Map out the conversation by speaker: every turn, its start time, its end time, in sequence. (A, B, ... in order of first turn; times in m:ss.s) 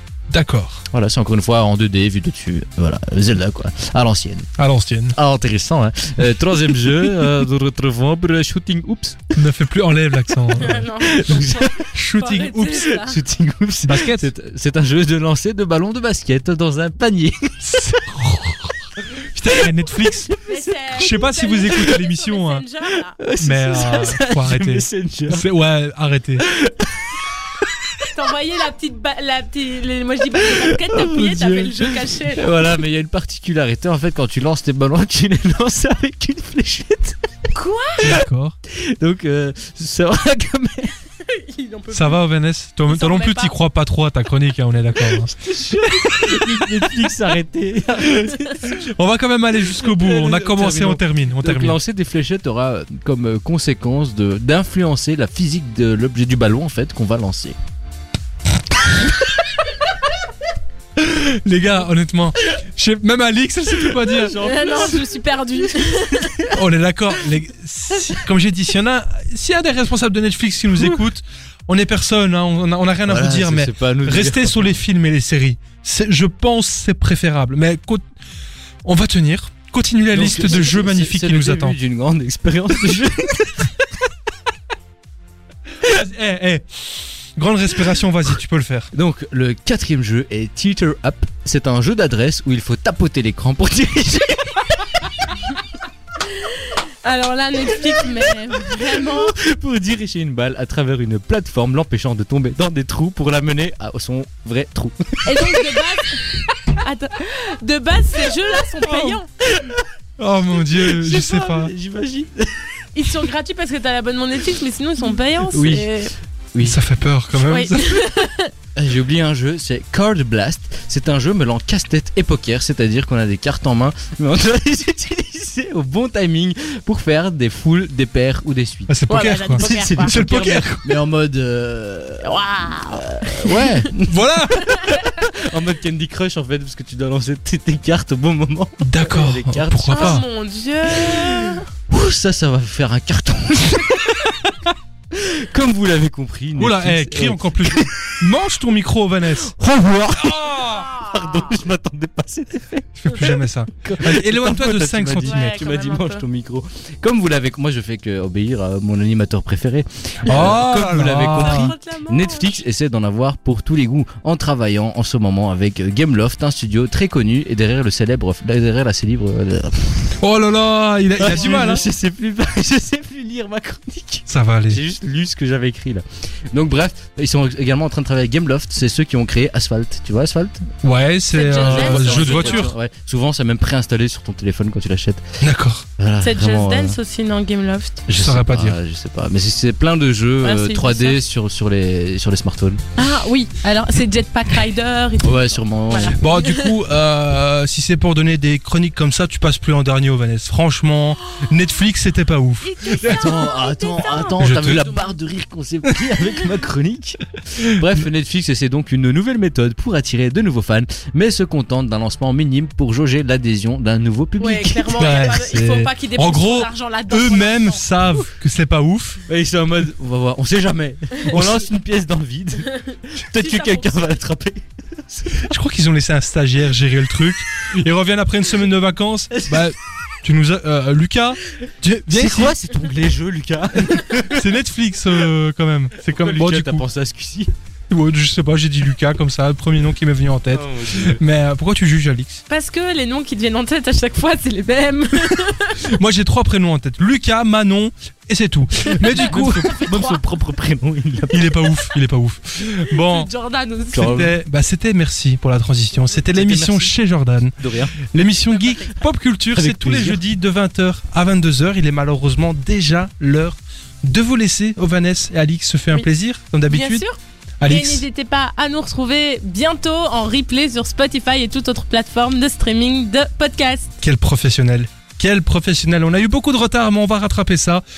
0:00.3-0:00.8 A
0:00.9-0:04.5 B
0:04.6-0:05.2 A
0:05.2-0:09.4 B
0:09.4-0:10.9 A
0:10.6-0:13.2 C
0:11.0-0:11.9 B
0:11.9-0:12.9 A
0:12.6-0:17.9 B
0:13.9-0:14.3 A
0:17.6-0:22.6 A
0:20.5-0:23.2 C
0:23.2-0:25.4 B
0:23.4-0:26.5 A
0:26.4-0:27.2 B
0:28.0-0:32.5 C
0:30.4-0:37.2 B
0:37.5-0:38.1 C
0:38.0-0:38.6 A
0:38.7-0:41.0 B
0:41.2-0:42.2 C
0:41.9-0:46.6 A
0:42.9-0:43.6 C
0:45.1-0:48.8 B
0:48.1-0:51.8 A
0:49.7-0:57.6 B
1:01.0-1:04.4 A
1:04.0-1:05.2 B
1:04.4-1:06.5 C
1:05.8-1:06.5 B
1:06.5-1:18.0 A
1:13.1-1:14.7 B
1:18.8-1:21.8 A
1:20.1-1:23.9 B
1:25.8-1:28.9 A
1:28.9-1:35.0 B
1:36.3-1:39.4 C
1:38.6-1:45.8 B
1:45.2-1:49.3 C
1:49.4-1:49.9 B
1:50.2-1:51.7 A
1:50.6-1:52.7 B
1:53.0-1:56.1 C
1:55.4-1:56.0 B
1:56.5-1:56.8 B
1:56.6-1:58.1 A
1:57.4-1:58.5 C
1:58.8-2:12.4 B
2:08.9-2:10.9 A
2:09.1-2:10.2 C
2:12.2-2:13.7 C
2:12.9-2:14.2 B
2:13.7-2:15.2 A
2:14.7-2:20.2 B
2:18.8-2:20.2 A
2:19.9-2:21.7 C
2:20.9-2:24.5 B
2:25.1-2:28.1 B
2:26.6-2:29.6 A
2:29.4-2:50.2 B
2:30.7-2:31.5 C
2:33.0-2:35.6 A
2:35.2-2:36.2 C
2:40.2-2:41.7 A
2:41.4-2:42.5 C
2:50.2-2:51.9 A
2:51.2-3:00.7 B
2:54.3-2:54.8 A
3:00.8-3:02.8 A
3:01.3-3:02.7 C
3:01.5-3:05.2 B
3:05.4-3:05.9 A
3:06.0-3:07.0 B
3:06.2-3:08.1 C
3:08.1-3:12.8 B
3:08.1-3:08.8 A
3:10.4-3:11.2 C
3:13.0-3:16.7 C
3:15.2-3:16.2 B
3:16.2-3:22.8 A
3:22.6-3:25.1 C
3:22.8-3:35.4 B
3:24.4-3:25.0 A
3:34.4-3:37.8 C
3:35.0-3:39.2 A
3:39.3-3:45.5 B
3:41.3-3:41.6 A
3:42.7-3:44.0 C
3:45.3-3:52.6 A
3:49.3-3:49.6 B
3:52.1-3:54.4 B
3:54.3-3:56.8 A
3:56.1-3:57.5 B
3:57.9-4:02.4 A
4:00.5-4:01.2 B
4:02.5-4:05.8 C
4:05.8-4:09.7 A
4:08.9-4:11.8 B
4:09.2-4:10.2 C
4:11.3-4:13.3 A
4:12.9-4:14.3 C
4:13.9-4:14.3 B
4:14.0-4:27.0 A
4:16.2-4:16.9 B
4:17.6-4:18.0 B
4:18.4-4:19.1 C
4:19.5-4:20.2 B
4:26.7-4:34.0 C
4:27.6-4:28.0 A
4:34.0-4:37.8 A